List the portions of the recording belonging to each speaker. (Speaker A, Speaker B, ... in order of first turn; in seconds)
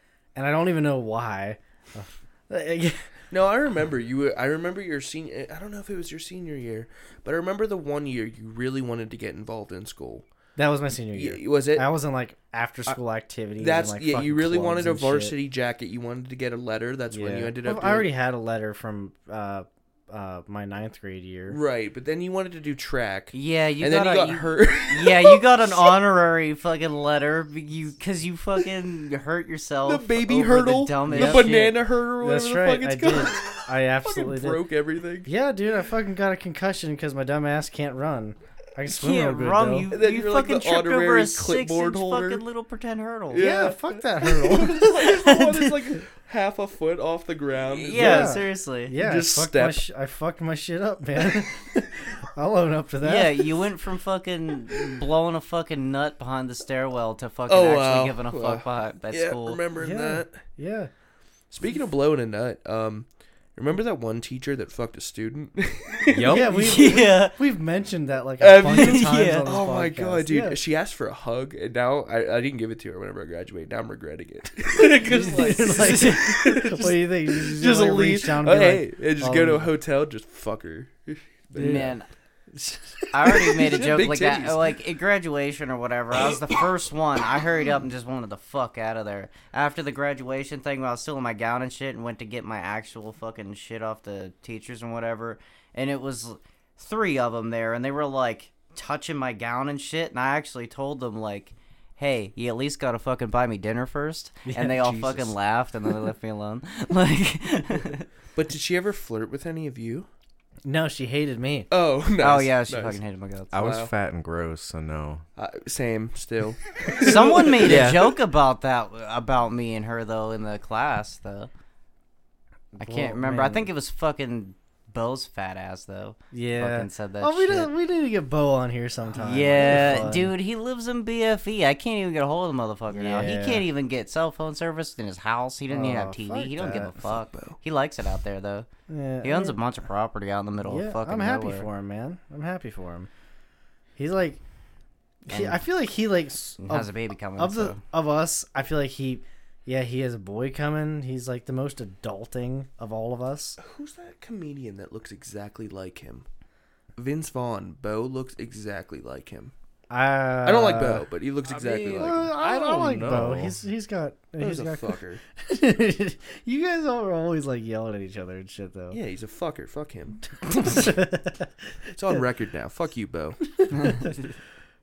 Speaker A: 0.3-3.1, 10.6-15.3, 17.1-21.6, 31.0-31.6, 32.2-34.6, 35.2-39.9, 43.4-45.0, 47.9-53.4, 59.8-60.9, 66.2-70.6, 74.8-79.7, 81.5-81.9, 82.5-83.7, 104.5-105.2, 110.6-111.7, 122.7-123.7, 126.3-130.3, 132.9-133.7, 135.7-136.9, 138.9-139.6, 140.6-143.1, 143.9-144.4, 145.3-153.6, 159.9-161.1, 161.9-169.0, 170.5-171.5, 173.5-174.3
Speaker B: 3.3-10.3, 11.1-11.9, 13.6-18.1, 21.5-25.9, 29.8-35.3, 39.9-42.4, 43.3-48.4, 49.0-49.8, 57.5-60.4, 61.5-66.8, 68.4-81.9, 83.5-84.8, 108.3-110.1, 111.7-113.0, 113.6-113.9, 115.3-118.0, 137.0-137.6, 153.6-156.2, 156.9-159.5, 160.4-162.3, 164.4-165.2, 168.9-170.8, 171.9-173.4
Speaker C: 23.3-31.8, 38.9-43.4, 45.0-45.8, 47.6-48.9, 53.0-59.6, 66.5-67.3, 68.6-69.4, 75.6-76.6, 81.5-82.0, 83.1-108.0, 112.2-113.5, 117.0-121.5, 122.8-127.7, 129.2-138.7, 139.2-141.7, 145.3-145.6, 146.6-147.8, 173.7-174.3
Speaker D: 66.1-66.6, 113.5-115.2, 117.6-118.1, 161.5-163.6